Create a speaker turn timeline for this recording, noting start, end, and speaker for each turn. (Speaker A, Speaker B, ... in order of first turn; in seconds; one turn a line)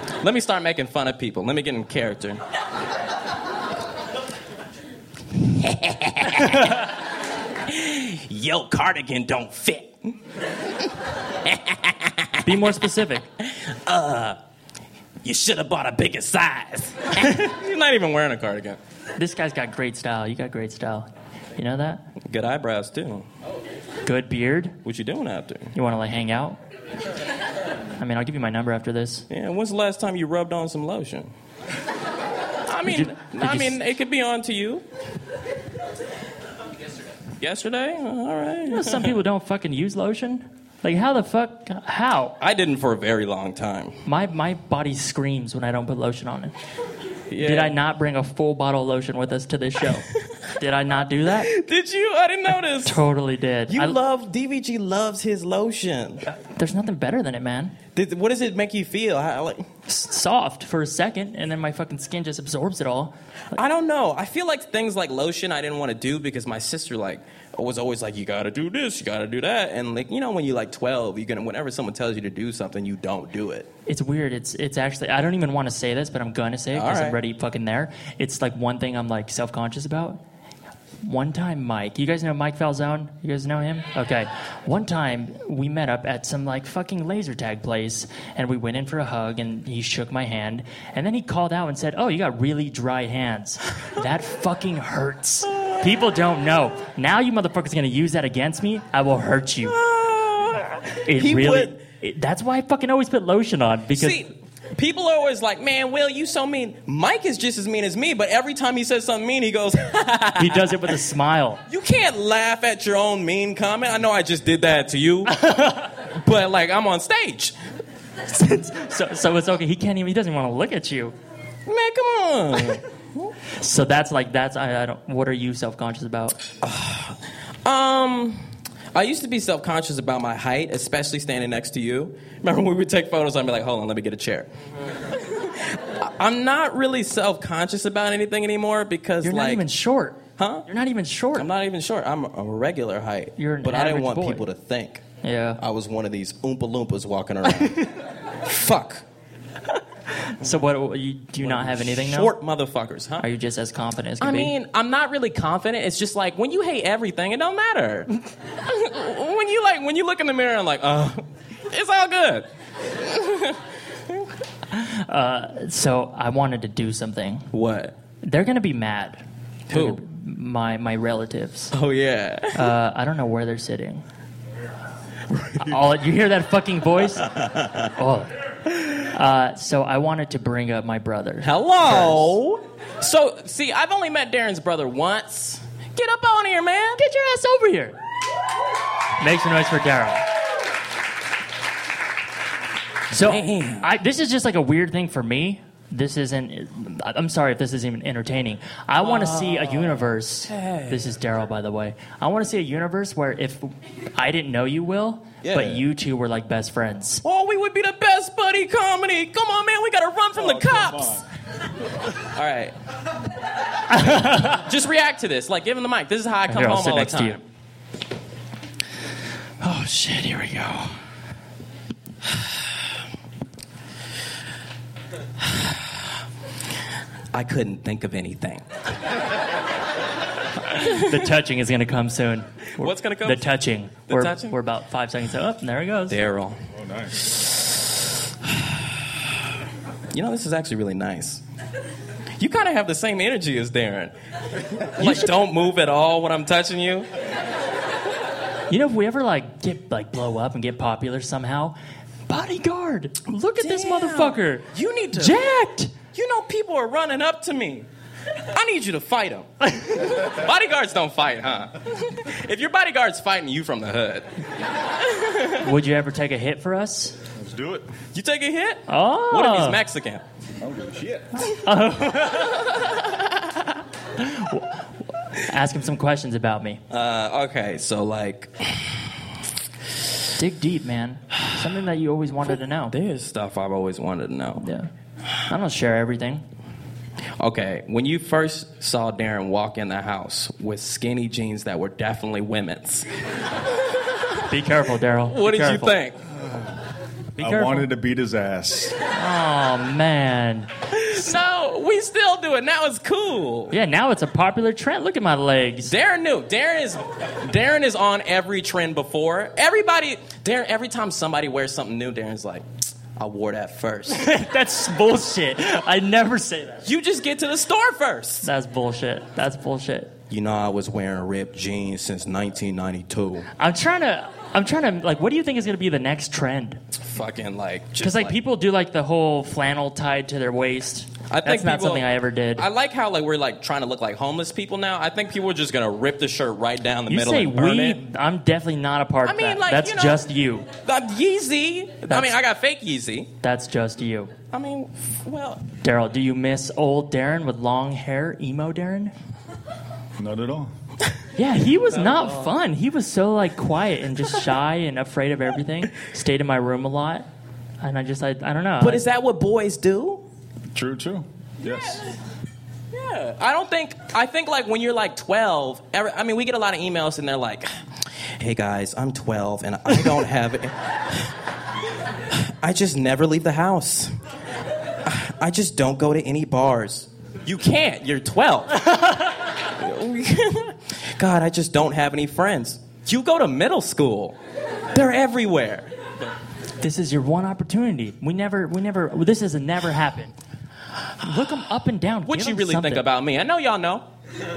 Speaker A: 0.2-2.4
Speaker A: 5.4-6.8
Speaker A: 7.7-10.2
Speaker A: 11.4-12.5
Speaker B: 12.4-13.2
Speaker A: 13.4-14.4
Speaker A: 15.2-18.8
Speaker B: 19.2-22.0
Speaker A: 22.2-23.3
Speaker B: 24.1-24.8
Speaker A: 24.8-25.7
Speaker B: 25.7-26.6
Speaker B: 28.0-29.2
Speaker A: 29.3-31.3
Speaker A: 32.6-34.8
Speaker B: 32.9-33.8
Speaker A: 37.4-39.2
Speaker B: 38.7-42.3
Speaker A: 42.4-44.0
Speaker B: 44.0-46.5
Speaker A: 47.3-47.8
Speaker B: 47.4-51.5
Speaker A: 51.3-53.0
Speaker B: 52.8-54.0
Speaker A: 53.7-56.2
Speaker B: 56.3-57.8
Speaker A: 57.9-59.7
Speaker B: 59.9-63.1
Speaker A: 63.5-73.7
Speaker B: 73.9-80.2
Speaker A: 76.7-77.2
Speaker B: 81.0-99.8
Speaker A: 99.6-101.8
Speaker B: 101.0-104.2
Speaker A: 103.9-110.9
Speaker B: 110.4-111.6
Speaker A: 111.7-115.4
Speaker B: 115.3-115.9
Speaker A: 116.1-117.5
Speaker B: 118.3-121.1
Speaker A: 121.7-123.3
Speaker B: 123.6-126.4
Speaker A: 126.6-134.5
Speaker A: 135.1-139.6
Speaker B: 139.2-141.5
Speaker A: 140.4-140.7
Speaker A: 141.3-145.0
Speaker B: 143.4-144.5
Speaker B: 145.2-145.6
Speaker A: 145.6-149.0
Speaker B: 150.3-152.3
Speaker A: 151.4-153.2
Speaker B: 153.2-154.5
Speaker A: 154.2-164.2
Speaker B: 164.7-167.5
Speaker A: 167.5-167.9
Speaker B: 168.2-171.7
Speaker A: 169.7-170.0
Speaker A: 171.7-172.7
Speaker B: 172.5-174.0
Speaker B: 175.6-182.3
Speaker A: 181.4-187.0
Speaker B: 187.0-188.0
Speaker B: 189.2-190.2
Speaker B: 193.1-207.2
Speaker A: 193.1-193.9
Speaker A: 199.0-201.1
Speaker A: 205.4-205.8
Speaker A: 207.2-211.2
Speaker C: 210.3-211.2
Speaker A: 212.2-212.8
Speaker B: 213.9-214.6
Speaker A: 214.2-217.4
Speaker B: 216.5-217.4
Speaker B: 219.6-220.9
Speaker A: 225.4-226.0
Speaker A: 227.3-228.6
Speaker B: 230.7-236.2
Speaker A: 232.8-233.5
Speaker A: 234.1-234.6
Speaker A: 236.1-236.6
Speaker C: 236.8-237.3
Speaker A: 238.4-239.3
Speaker A: 240.1-241.4
Speaker A: 242.4-244.1
Speaker A: 245.0-247.1
Speaker B: 248.7-251.7
Speaker B: 252.3-255.9
Speaker A: 253.5-255.4
Speaker A: 256.1-257.9
Speaker A: 258.5-264.3
Speaker A: 265.0-265.7
Speaker B: 265.6-267.2
Speaker C: 267.3-267.9
Speaker A: 268.1-270.2
Speaker B: 268.9-269.8
Speaker C: 270.6-271.5
Speaker B: 271.4-272.7
Speaker A: 272.7-273.6
Speaker B: 274.2-274.8
Speaker B: 275.3-276.8
Speaker A: 276.9-279.0
Speaker B: 280.4-282.9
Speaker A: 282.9-284.6
Speaker B: 284.6-284.9
Speaker B: 285.4-286.4
Speaker A: 287.4-293.1
Speaker B: 294.5-295.9
Speaker A: 295.2-296.2
Speaker B: 297.4-297.9
Speaker C: 297.4-298.9
Speaker B: 299.1-300.7
Speaker A: 300.9-303.8
Speaker B: 303.7-305.9
Speaker A: 305.9-314.2
Speaker B: 314.1-316.8
Speaker A: 316.8-318.5
Speaker B: 318.4-320.1
Speaker A: 320.3-323.5
Speaker B: 323.6-326.8
Speaker A: 326.9-328.4
Speaker B: 328.0-332.6
Speaker A: 331.3-338.0
Speaker B: 337.1-340.7
Speaker A: 339.2-340.2
Speaker A: 340.8-343.3
Speaker B: 343.4-344.3
Speaker A: 344.5-345.7
Speaker B: 345.8-349.1
Speaker C: 350.2-350.7
Speaker B: 351.4-357.2
Speaker A: 352.0-352.5
Speaker B: 357.8-359.0
Speaker A: 358.8-360.2
Speaker C: 360.7-362.0
Speaker A: 362.9-367.7
Speaker A: 368.4-371.3
Speaker A: 372.3-374.1
Speaker A: 375.0-384.4
Speaker A: 384.9-385.9
Speaker B: 386.8-390.3
Speaker B: 391.2-393.1
Speaker A: 392.2-394.1